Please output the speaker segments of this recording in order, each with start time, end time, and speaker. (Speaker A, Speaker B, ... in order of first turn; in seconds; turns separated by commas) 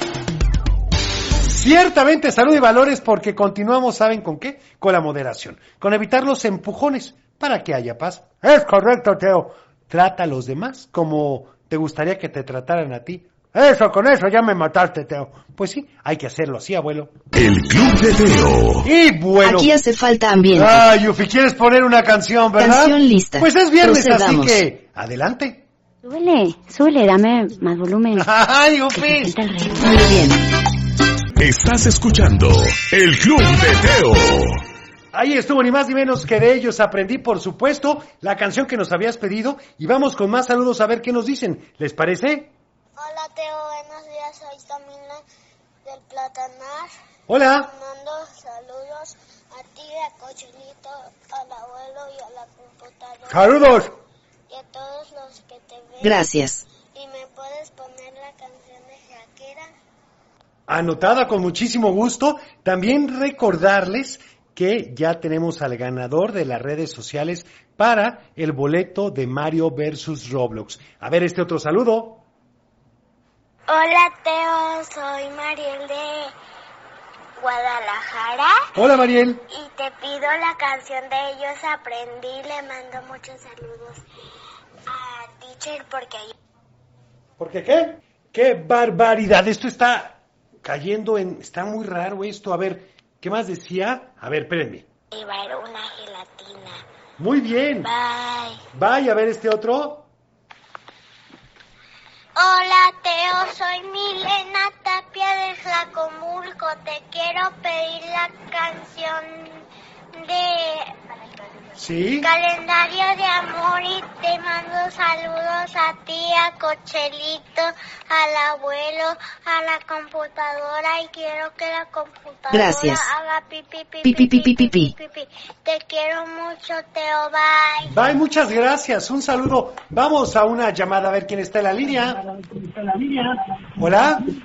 Speaker A: 1.5-17.1, Speaker B: 17.3-18.9, Speaker A: 18.8-19.7, Speaker C: 19.4-20.9, Speaker A: 20.5-25.6, Speaker C: 22.6-24.6, Speaker D: 26.0-28.3, Speaker A: 28.2-29.4, Speaker D: 28.9-30.2, Speaker C: 29.8-30.4, Speaker B: 31.4-34.6, Speaker A: 35.1-42.5, Speaker E: 43.0-45.2, Speaker E: 45.9-46.8, Speaker A: 47.3-47.7, Speaker E: 47.7-53.4, Speaker A: 53.3-54.0, Speaker E: 54.5-56.0, Speaker C: 56.0-56.6, Speaker E: 57.0-59.5, Speaker A: 60.7-72.2, Speaker E: 73.7-76.3, Speaker E: 77.4-78.5, Speaker A: 78.8-79.4, Speaker E: 79.5-84.0, Speaker E: 84.9-86.3, Speaker A: 87.4-94.9, Speaker E: 95.1-96.8, Speaker A: 97.2-97.9, Speaker E: 97.8-98.6, Speaker A: 98.7-100.1, Speaker E: 102.4-109.4, Speaker E: 110.3-110.9, Speaker A: 111.8-112.3, Speaker E: 112.2-127.9, Speaker C: 122.5-123.1, Speaker C: 124.0-124.9, Speaker A: 127.8-132.2, Speaker A: 133.8-134.2